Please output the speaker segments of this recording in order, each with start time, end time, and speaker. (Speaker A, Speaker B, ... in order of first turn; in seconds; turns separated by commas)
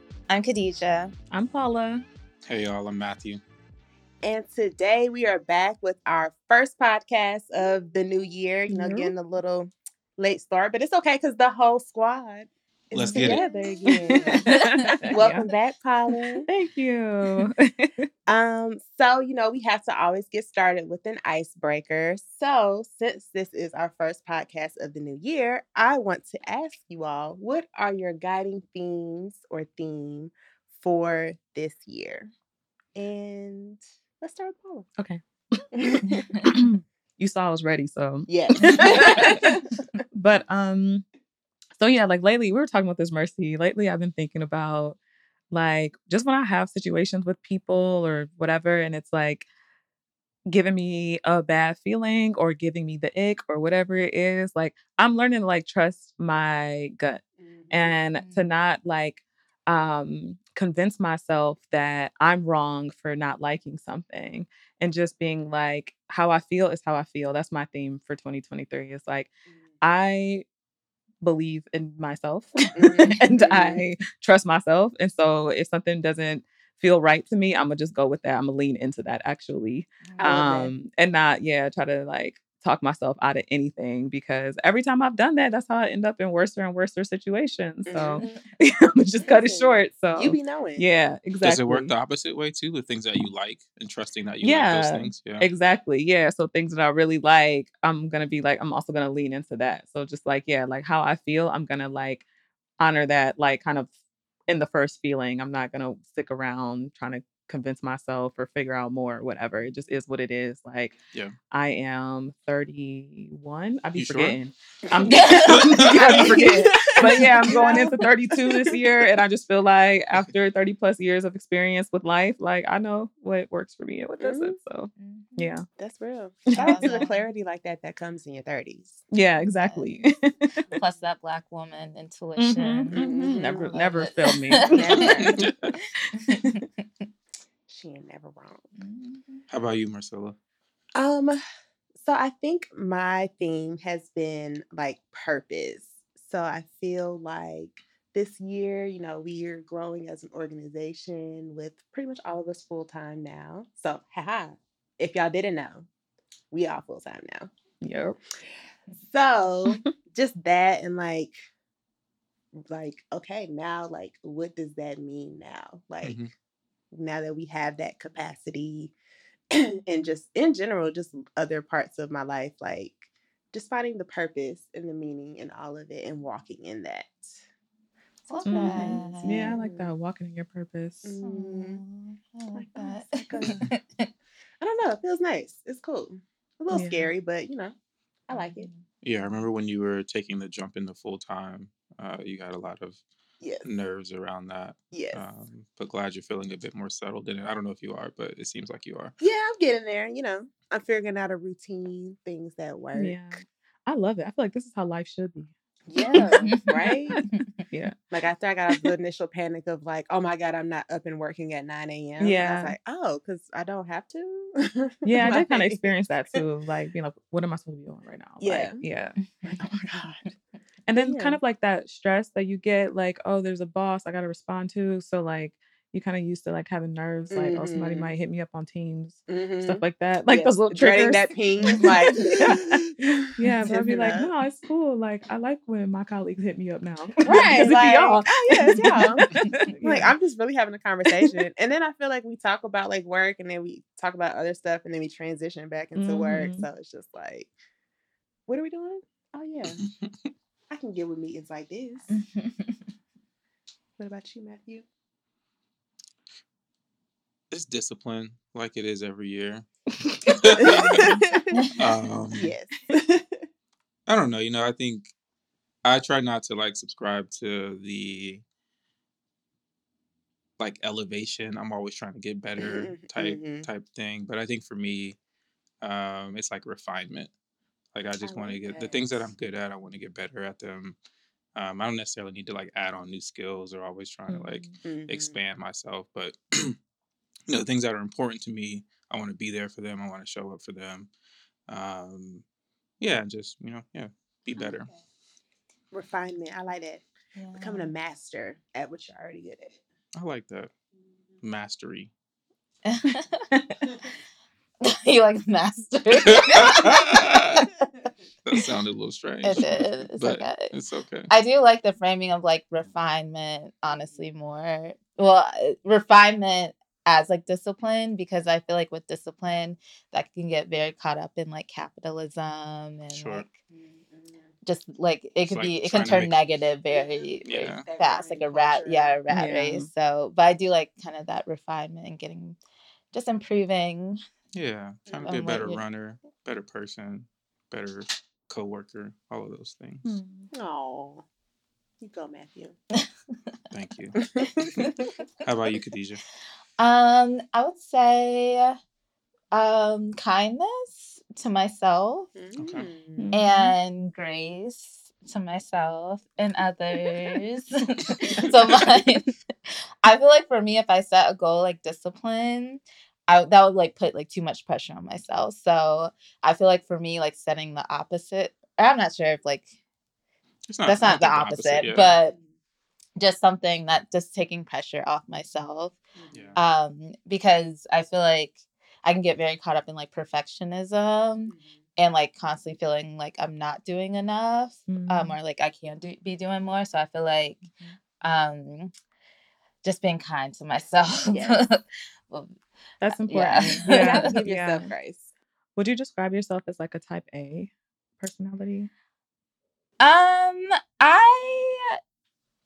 Speaker A: 0.3-1.1, Speaker B: 1.3-2.0, Speaker C: 2.5-3.4, Speaker D: 4.2-16.5, Speaker B: 8.7-9.1, Speaker C: 12.9-13.4, Speaker A: 13.1-15.1, Speaker B: 14.1-15.5, Speaker B: 16.5-18.1, Speaker D: 18.3-32.3, Speaker D: 33.0-34.9, Speaker B: 35.0-35.7, Speaker D: 35.7-36.3, Speaker A: 36.1-36.5, Speaker B: 36.4-39.6, Speaker D: 38.3-39.6, Speaker B: 40.1-41.0, Speaker B: 41.8-45.0, Speaker B: 45.5-49.5, Speaker B: 50.5-70.5, Speaker D: 57.5-58.0, Speaker A: 58.2-58.5, Speaker B: 71.2-91.9, Speaker D: 72.8-73.8, Speaker A: 80.1-80.4, Speaker D: 80.2-80.7, Speaker D: 87.9-88.4, Speaker D: 89.2-90.9, Speaker C: 91.4-95.5, Speaker B: 94.4-102.2, Speaker B: 102.8-103.9, Speaker B: 104.5-110.9, Speaker B: 111.5-125.7, Speaker C: 114.0-114.4, Speaker A: 115.1-115.9, Speaker C: 115.5-116.0, Speaker D: 116.2-118.8, Speaker D: 124.2-124.6, Speaker A: 125.0-125.5, Speaker D: 125.8-129.0, Speaker B: 126.5-127.0, Speaker A: 126.6-127.2, Speaker B: 129.1-130.8, Speaker A: 129.6-129.9, Speaker A: 130.7-135.5, Speaker B: 132.4-135.1, Speaker D: 132.9-133.8, Speaker D: 134.6-135.5, Speaker C: 134.9-135.7, Speaker A: 136.1-136.7, Speaker D: 137.7-138.8, Speaker A: 138.8-139.4, Speaker C: 139.5-140.4, Speaker D: 140.9-141.4, Speaker D: 142.0-155.9, Speaker D: 156.5-157.5, Speaker B: 157.8-158.2, Speaker D: 158.9-161.4, Speaker D: 162.5-166.2, Speaker C: 166.0-166.3, Speaker D: 166.9-168.9, Speaker D: 169.5-177.4, Speaker D: 178.3-179.9, Speaker A: 178.3-179.6, Speaker B: 178.4-181.1, Speaker D: 181.0-181.8, Speaker A: 181.2-184.1, Speaker D: 182.5-183.7, Speaker D: 184.6-187.8, Speaker B: 186.7-187.1, Speaker D: 188.3-188.7, Speaker A: 188.3-188.8, Speaker C: 189.0-193.0, Speaker C: 193.6-199.1, Speaker D: 194.9-195.2, Speaker D: 199.2-203.4, Speaker B: 202.9-205.5, Speaker D: 205.9-207.2, Speaker A: 206.0-207.5, Speaker B: 207.1-207.9, Speaker D: 208.1-216.4, Speaker B: 212.2-212.7, Speaker B: 215.1-219.6, Speaker D: 218.4-218.8, Speaker A: 219.4-220.0, Speaker D: 219.6-220.3, Speaker B: 220.9-240.1, Speaker D: 220.9-221.4, Speaker D: 227.3-228.1, Speaker D: 229.3-234.3, Speaker D: 237.2-247.5, Speaker B: 246.0-246.7, Speaker D: 248.5-249.8, Speaker C: 249.8-250.1, Speaker D: 250.7-252.2, Speaker A: 252.1-252.8, Speaker D: 254.0-254.9, Speaker C: 257.5-259.7, Speaker C: 260.2-261.2, Speaker D: 260.6-261.8, Speaker A: 261.5-261.9, Speaker C: 261.8-262.5, Speaker D: 262.3-263.5, Speaker C: 264.1-265.1, Speaker C: 265.8-268.4, Speaker C: 270.6-275.2, Speaker D: 272.6-273.7, Speaker C: 275.8-277.3, Speaker C: 277.9-281.0, Speaker D: 278.2-279.3, Speaker C: 281.6-286.8, Speaker B: 284.3-284.7, Speaker D: 284.8-285.4, Speaker C: 287.5-291.1, Speaker C: 291.7-292.4, Speaker C: 293.0-294.9, Speaker D: 295.9-299.8, Speaker A: 297.4-297.9, Speaker C: 300.1-300.7, Speaker C: 301.4-302.1, Speaker A: 302.9-304.0, Speaker A: 304.8-307.9, Speaker C: 306.3-307.7, Speaker C: 308.4-311.3, Speaker A: 309.4-310.7, Speaker A: 311.3-323.6, Speaker C: 323.1-323.4, Speaker D: 323.7-324.5, Speaker A: 324.6-332.6, Speaker C: 325.5-326.3, Speaker D: 326.9-329.2, Speaker C: 327.4-327.8, Speaker B: 329.3-329.9, Speaker A: 333.1-334.2, Speaker C: 334.5-340.0, Speaker D: 335.1-335.3, Speaker A: 335.2-335.8, Speaker B: 340.0-340.5, Speaker D: 340.5-341.3, Speaker D: 342.0-342.8, Speaker C: 343.7-344.9, Speaker D: 344.2-345.0, Speaker A: 344.6-345.1, Speaker C: 345.4-346.2, Speaker A: 346.8-348.8, Speaker A: 349.5-352.4, Speaker D: 352.4-353.3, Speaker C: 352.6-352.9, Speaker B: 353.2-353.7, Speaker A: 353.3-369.7, Speaker C: 370.7-372.2, Speaker A: 370.9-372.4, Speaker A: 373.2-376.0, Speaker D: 376.2-376.6, Speaker C: 376.3-376.6, Speaker A: 376.6-387.7, Speaker B: 384.9-385.4, Speaker B: 387.6-388.0, Speaker A: 388.2-388.9, Speaker A: 389.8-392.6, Speaker D: 391.3-391.6, Speaker B: 393.0-394.9, Speaker A: 393.1-394.3, Speaker D: 393.7-395.3, Speaker B: 395.8-398.9, Speaker A: 400.0-402.0